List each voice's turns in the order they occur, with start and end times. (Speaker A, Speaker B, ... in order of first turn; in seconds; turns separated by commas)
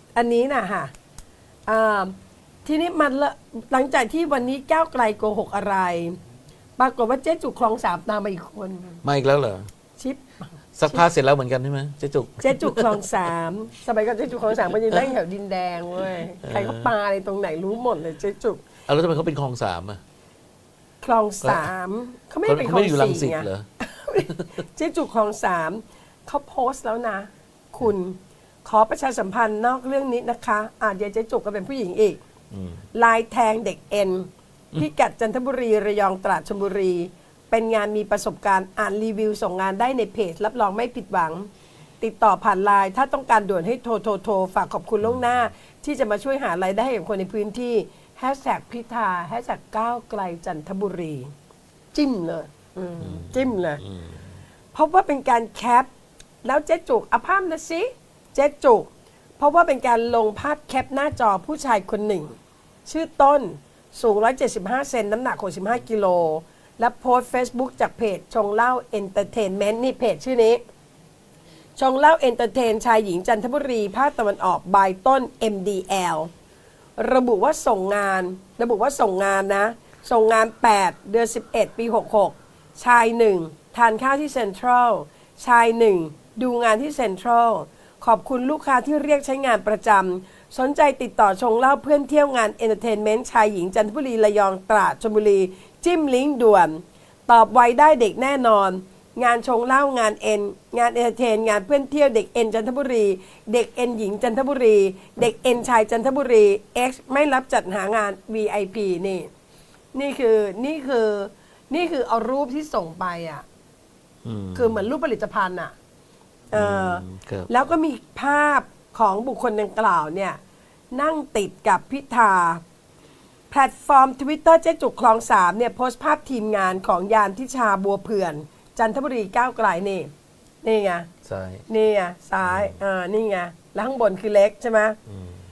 Speaker A: 0.1-0.9, Speaker A: 1.7-2.1, Speaker A: 2.6-6.2, Speaker A: 6.8-9.0, Speaker B: 9.0-9.7, Speaker A: 10.0-11.1, Speaker B: 10.8-13.0, Speaker A: 12.4-18.7, Speaker B: 16.4-16.9, Speaker B: 18.9-20.0, Speaker A: 21.0-32.2, Speaker B: 21.4-21.7, Speaker B: 22.4-23.7, Speaker B: 32.5-32.8, Speaker A: 32.9-41.5, Speaker A: 42.0-51.3, Speaker A: 51.9-53.8, Speaker B: 53.0-54.1, Speaker A: 54.7-55.9, Speaker A: 56.4-62.3, Speaker A: 62.9-70.6, Speaker A: 71.8-76.3, Speaker A: 77.0-109.3, Speaker A: 109.9-113.4, Speaker B: 114.2-114.9, Speaker A: 114.5-115.7, Speaker A: 116.5-120.4, Speaker B: 116.5-117.5, Speaker A: 120.9-122.6, Speaker A: 123.5-130.1, Speaker A: 130.6-131.1, Speaker B: 131.2-131.6, Speaker A: 131.7-135.0, Speaker B: 132.4-132.7, Speaker B: 135.1-135.4